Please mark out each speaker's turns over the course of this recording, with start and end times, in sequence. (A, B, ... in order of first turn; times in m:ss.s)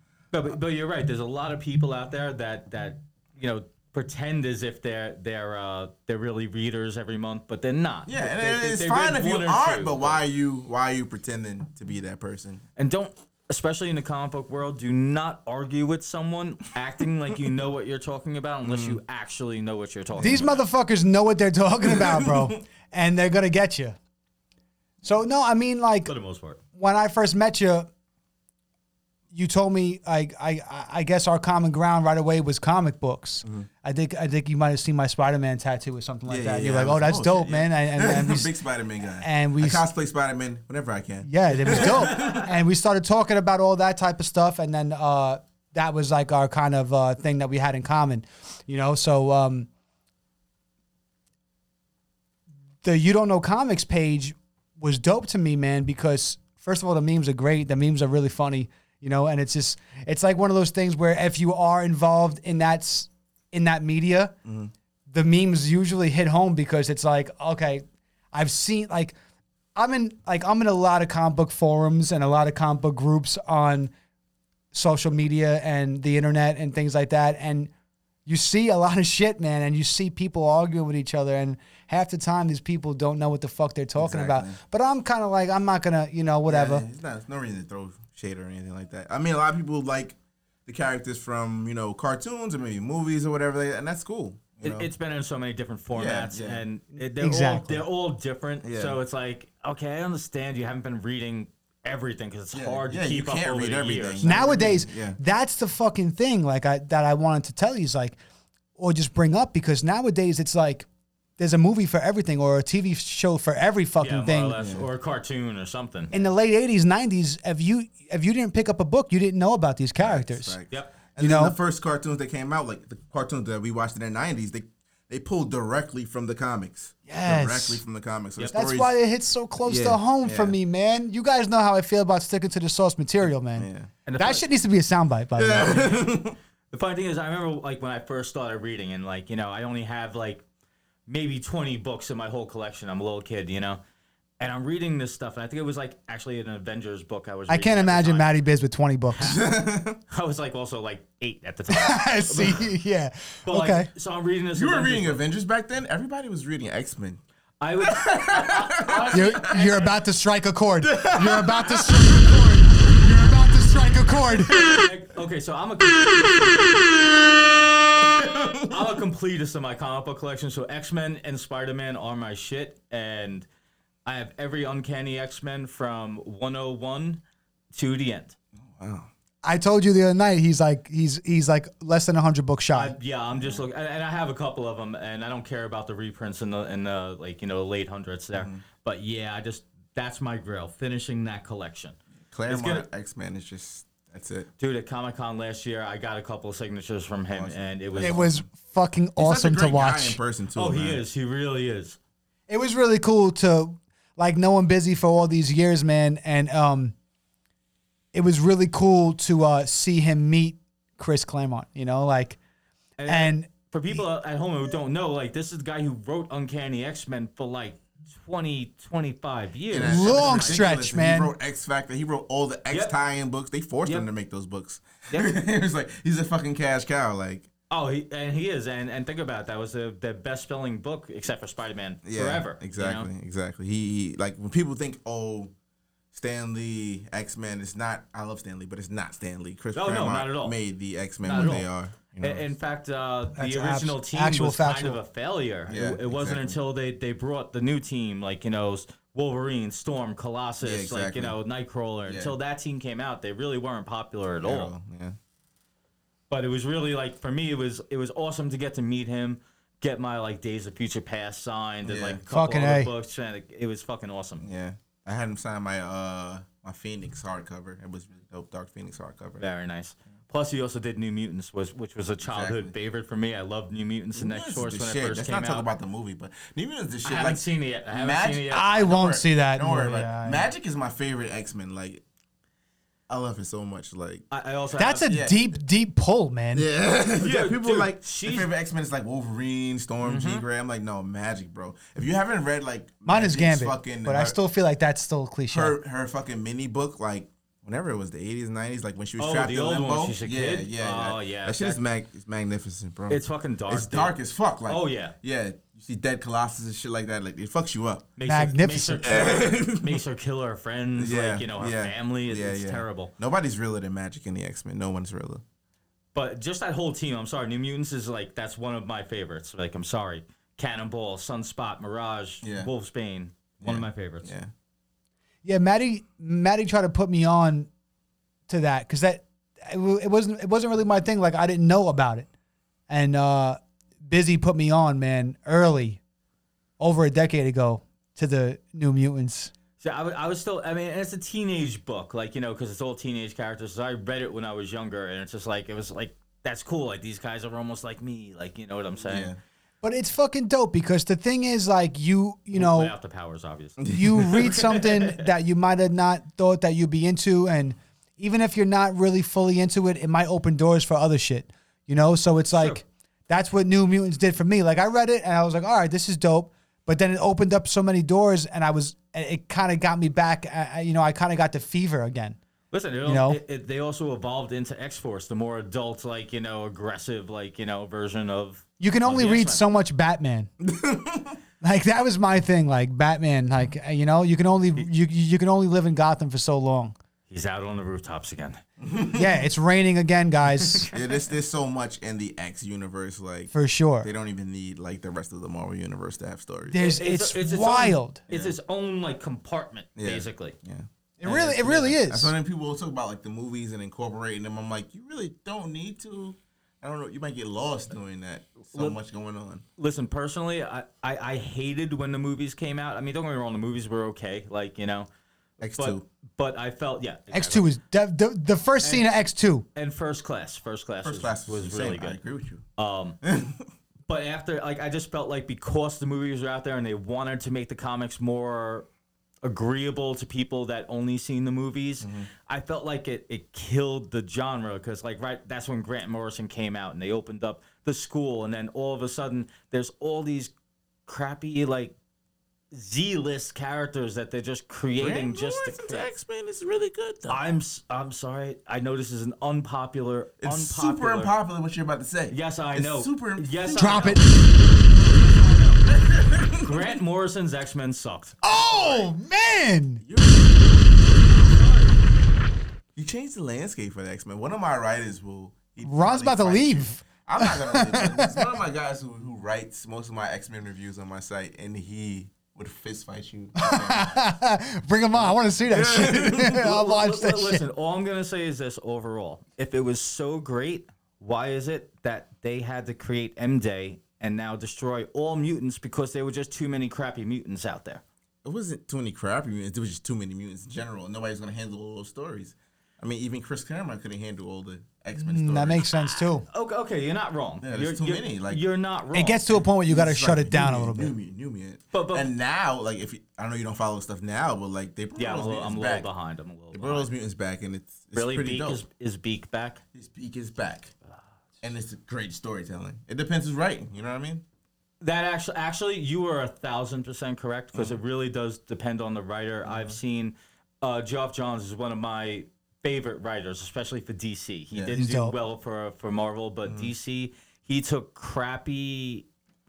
0:00.3-0:10.2 A
0:08.0-0:12.6 B
0:12.8-0:20.6 A
0:18.6-0:19.0 B
0:20.2-0:20.5 B
0:20.2-0:24.0 C
0:21.8-0:22.5 B
0:25.0-0:26.1 C
0:26.0-0:26.6 A
0:26.8-0:27.9 C
0:29.3-0:38.5 C
0:36.3-0:42.5 B
0:39.2-0:39.8 C
0:41.2-0:49.7 C
0:52.8-1:04.4 C
1:04.4-1:04.7 B
1:05.1-1:09.1 C
1:09.8-1:13.9 C
1:14.7-1:17.7 C
1:18.2-1:26.8 C
1:24.0-1:24.6 B
1:26.4-1:34.9 B
1:34.6-1:44.3 A
1:35.9-1:36.6 B
1:37.0-1:37.8 C
1:38.6-1:39.0 B
1:42.5-1:45.2 B
1:44.2-1:48.2 C
1:48.8-1:50.9 C
1:51.4-1:54.6 C
1:54.0-1:56.1 A
1:54.6-1:54.9 B
1:56.1-2:00.6 C
2:00.0-2:08.9 B
2:00.7-2:01.0 A
2:01.2-2:01.5 C
2:07.1-2:07.8 C
2:08.5-2:15.9 C
2:09.6-2:10.6 B
2:13.5-2:13.9 B
2:14.0-2:14.4 A
2:15.4-2:16.4 B
2:16.7-2:20.4 A
2:21.1-2:23.8 A
2:24.4-2:28.3 A
2:27.5-2:29.4 C
2:29.2-2:30.0 B
2:30.1-2:32.7 A
2:31.7-2:33.9 C
2:33.4-2:35.2 A
2:34.5-2:37.2 B
2:37.6-2:40.0 A
2:37.8-2:39.5 B
2:39.1-2:44.6 C
2:40.8-2:42.0 B
2:44.5-2:47.2 A
2:47.9-2:53.4 A
2:48.2-2:48.8 B
2:54.0-2:57.2 A
2:57.7-2:58.3 A
2:58.6-2:59.1 B
2:59.4-3:02.9 C
3:02.7-3:12.0 A
3:03.3-3:03.6 B
3:08.4-3:08.6 B
3:12.3-3:14.5 B
3:12.5-3:12.8 A
3:14.6-3:18.2 A
3:17.3-3:18.4 B
3:18.0-3:20.2 C
3:19.2-3:21.0 B
3:20.6-3:22.0 A
3:22.5-3:26.9 C
3:28.1-3:32.4 C
3:33.0-3:40.7 A
3:33.1-3:34.0 C
3:39.7-3:47.5 B
3:39.8-3:41.3 C
3:47.7-3:53.1 A
3:52.0-3:55.5 B
3:56.1-4:02.5 B
3:59.7-4:00.6 A
4:01.2-4:01.7 A
4:02.2-4:14.7 A
4:03.4-4:05.0 C
4:05.7-4:06.6 B
4:10.6-4:11.4 B
4:12.1-4:12.4 B
4:14.4-4:15.2 B
4:16.3-4:24.4 A
4:21.8-4:22.2 B
4:22.3-4:22.9 C
4:24.4-4:29.4 B
4:29.4-4:35.7 A
4:32.2-4:32.7 B
4:34.1-4:42.0 B
4:37.0-4:38.9 A
4:38.5-4:40.5 C
4:43.1-4:44.2 B
4:44.3-4:45.1 A
4:44.8-4:46.7 C
4:45.0-4:45.5 B
4:46.5-4:54.4 B
4:47.2-4:48.5 A
4:50.0-4:50.4 A
4:53.0-4:55.8 C
4:55.5-5:08.1 B
4:59.2-5:01.8 A
5:03.1-5:04.1 A
5:04.6-5:05.1 A
5:08.2-5:13.1 A
5:08.2-5:09.2 C
5:09.0-5:10.0 B
5:11.0-5:15.4 B
5:16.1-5:24.3 A
5:22.4-5:22.7 B
5:23.6-5:24.5 B
5:25.4-5:27.7 C
5:28.5-5:32.3 C
5:32.9-5:36.0 C
5:36.8-5:39.5 C
5:39.8-5:49.3 A
5:49.0-5:49.4 B
5:49.8-5:52.9 C
5:52.5-5:55.2 A
5:53.8-5:54.6 B
5:53.9-6:12.4 C
6:02.5-6:02.8 A
6:12.7-6:19.6 A
6:13.0-6:13.4 C
6:18.8-6:20.5 C
6:20.6-6:21.4 B
6:21.6-6:26.9 C
6:27.3-6:28.6 A
6:28.8-6:29.3 B
6:29.1-6:30.9 C
6:30.8-6:31.0 A
6:30.9-6:36.8 B
6:33.5-6:34.1 C
6:36.7-6:38.2 C
6:36.8-6:40.5 A
6:38.3-6:38.6 B
6:40.0-6:49.6 B
6:41.2-6:42.3 C
6:41.3-6:41.9 A
6:49.8-6:55.1 A
6:55.6-6:56.0 B
6:55.7-6:57.7 A
6:57.3-6:59.6 C
6:58.8-6:59.1 A
6:59.7-7:02.2 A
7:01.0-7:02.6 B
7:02.8-7:03.2 A
7:03.2-7:03.7 B
7:04.1-7:08.8 A
7:09.4-7:20.5 A
7:12.0-7:12.3 B
7:21.1-7:21.9 A
7:22.7-7:26.0 A
7:25.0-7:27.4 B
7:27.3-7:31.3 A
7:30.4-7:34.3 B
7:32.3-7:39.0 A
7:33.8-7:34.2 C
7:36.1-7:36.8 B
7:38.4-7:40.0 C
7:40.0-7:41.1 B
7:41.2-7:42.0 A
7:43.0-7:54.2 B
7:45.8-7:48.4 C
7:53.6-7:57.6 C
7:55.2-7:56.6 B
7:56.5-8:08.0 A
8:08.4-8:15.9 B
8:15.2-8:16.4 C
8:15.9-8:19.5 A
8:17.6-8:18.6 B
8:19.1-8:21.1 C
8:19.6-8:26.1 B
8:21.9-8:22.3 A
8:25.2-8:27.1 A
8:26.7-8:28.8 B
8:28.1-8:29.8 A
8:29.9-8:30.9 B
8:31.6-8:34.4 B
8:35.0-8:49.2 A
8:37.7-8:38.0 B
8:39.6-8:40.0 B
8:44.7-8:45.0 B
8:44.9-8:45.4 C
8:46.6-8:46.9 B